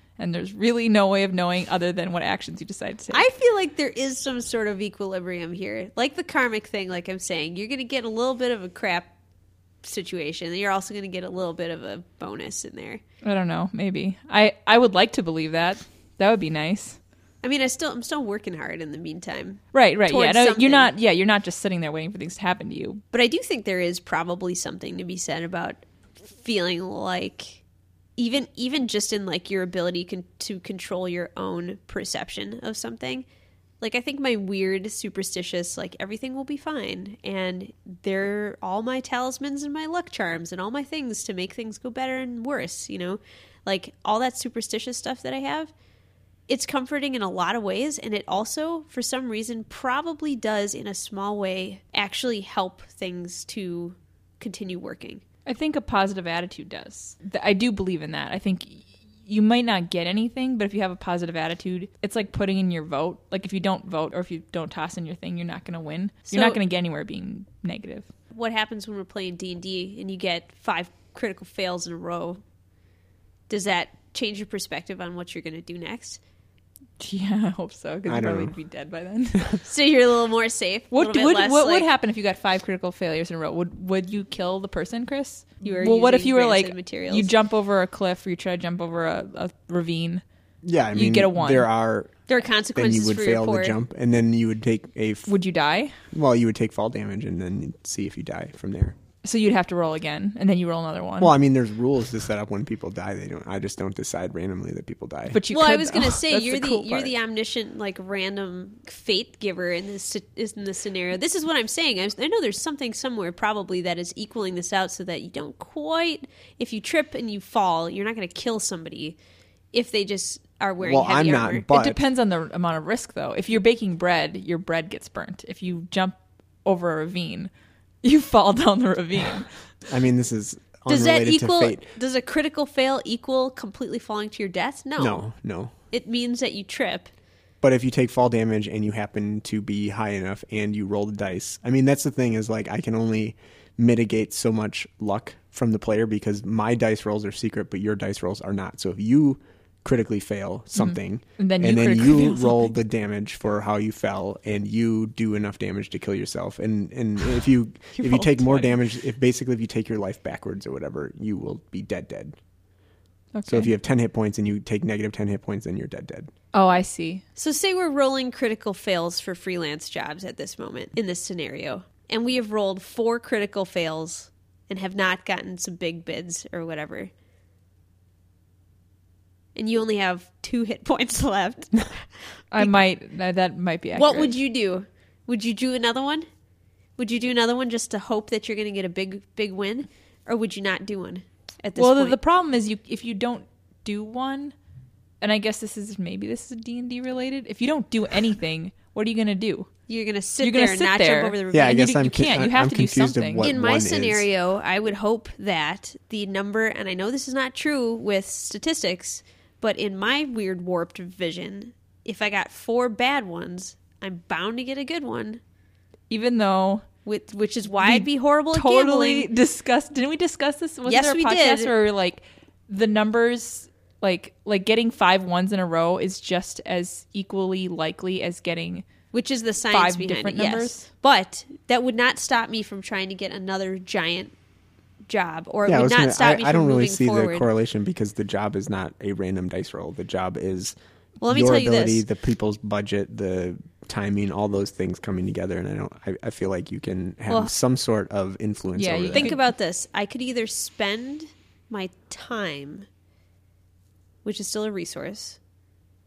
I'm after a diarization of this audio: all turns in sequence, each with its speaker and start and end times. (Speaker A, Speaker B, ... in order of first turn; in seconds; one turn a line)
Speaker A: 0.2-3.2
Speaker B: 3.1-9.1
Speaker B: 9.8-13.0
Speaker A: 13.2-17.0
Speaker B: 17.4-20.9
Speaker A: 19.7-23.0
Speaker B: 23.1-27.6
Speaker B: 28.2-33.3
Speaker B: 33.8-45.7
Speaker B: 46.5-55.2
Speaker A: 55.5-68.1
Speaker B: 66.3-66.6
Speaker B: 68.3-72.4
Speaker B: 73.5-76.2
Speaker A: 77.0-79.5
Speaker C: 78.1-78.5
Speaker B: 79.6-81.9
Speaker A: 80.9-90.2
Speaker B: 85.6-87.3
Speaker C: 90.6-92.1
Speaker A: 90.9-91.7
Speaker B: 92.3-93.8
Speaker C: 92.8-95.3
Speaker A: 95.3-96.0
Speaker C: 96.1-99.0
Speaker A: 99.2-101.3
Speaker C: 101.2-105.4
Speaker A: 105.3-107.1
Speaker B: 105.5-119.2
Speaker B: 119.7-121.7
Speaker C: 120.8-122.0
Speaker A: 121.7-127.5
Speaker A: 128.0-129.5
Speaker C: 129.9-131.9
Speaker B: 130.9-135.2
Speaker C: 135.0-135.7
Speaker B: 135.9-137.1
Speaker C: 137.6-162.4
Speaker A: 150.8-152.7
Speaker A: 157.9-158.8
Speaker A: 163.3-163.7
Speaker C: 163.5-166.3
Speaker A: 166.5-167.2
Speaker B: 167.4-177.1
Speaker B: 179.6-182.8
Speaker A: 182.5-184.3
Speaker B: 184.0-186.3
Speaker B: 187.0-192.2
Speaker A: 191.8-194.5
Speaker A: 195.2-199.7
Speaker B: 199.9-202.0
Speaker A: 200.4-203.5
Speaker C: 201.5-204.3
Speaker B: 203.4-215.4
Speaker A: 216.1-216.9
Speaker B: 217.1-219.3
Speaker A: 217.8-228.8
Speaker B: 220.8-221.7
Speaker B: 229.1-234.3
Speaker A: 229.7-230.9
Speaker B: 235.1-237.5
Speaker C: 235.7-240.8
Speaker B: 241.2-242.1
Speaker C: 241.3-249.3
Speaker A: 248.8-249.4
Speaker B: 249.1-252.9
Speaker B: 254.2-255.4